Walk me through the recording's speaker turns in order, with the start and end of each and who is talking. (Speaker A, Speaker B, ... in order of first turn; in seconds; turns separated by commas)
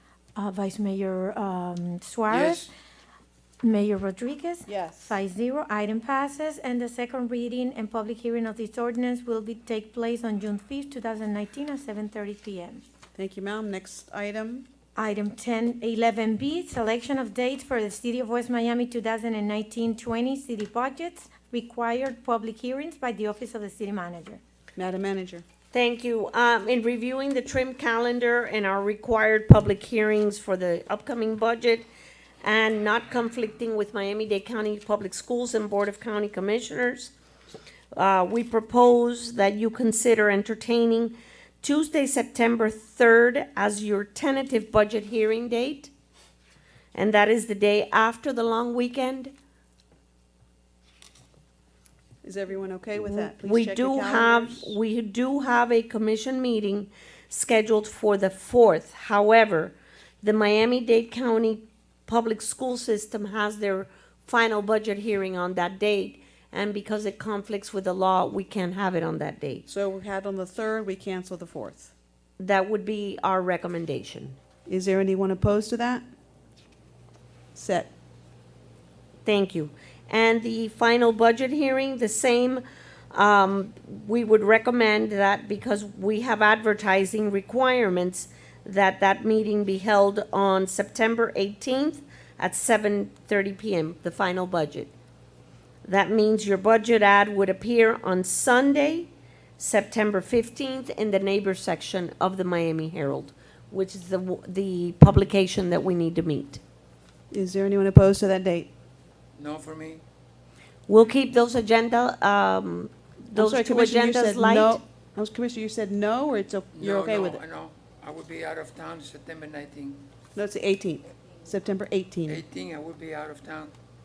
Speaker A: 0.3-2.7, Speaker B: 2.3-2.7, Speaker A: 3.6-12.8, Speaker C: 4.7-5.1, Speaker C: 13.1-14.7, Speaker A: 14.9-24.4, Speaker C: 24.8-25.4, Speaker D: 25.7-31.9, Speaker D: 32.4-37.1, Speaker D: 37.9-45.9, Speaker D: 46.9-49.3, Speaker C: 52.2-54.8, Speaker D: 52.9-69.6, Speaker C: 69.7-71.9, Speaker D: 72.4-74.4, Speaker C: 74.7-76.0, Speaker C: 77.5-77.9, Speaker D: 79.2-94.9, Speaker D: 95.8-106.6, Speaker C: 107.3-108.7, Speaker B: 109.4-110.0, Speaker D: 110.9-114.8, Speaker C: 113.3-117.4, Speaker B: 116.7-120.1, Speaker C: 120.3-122.4, Speaker B: 122.3-123.7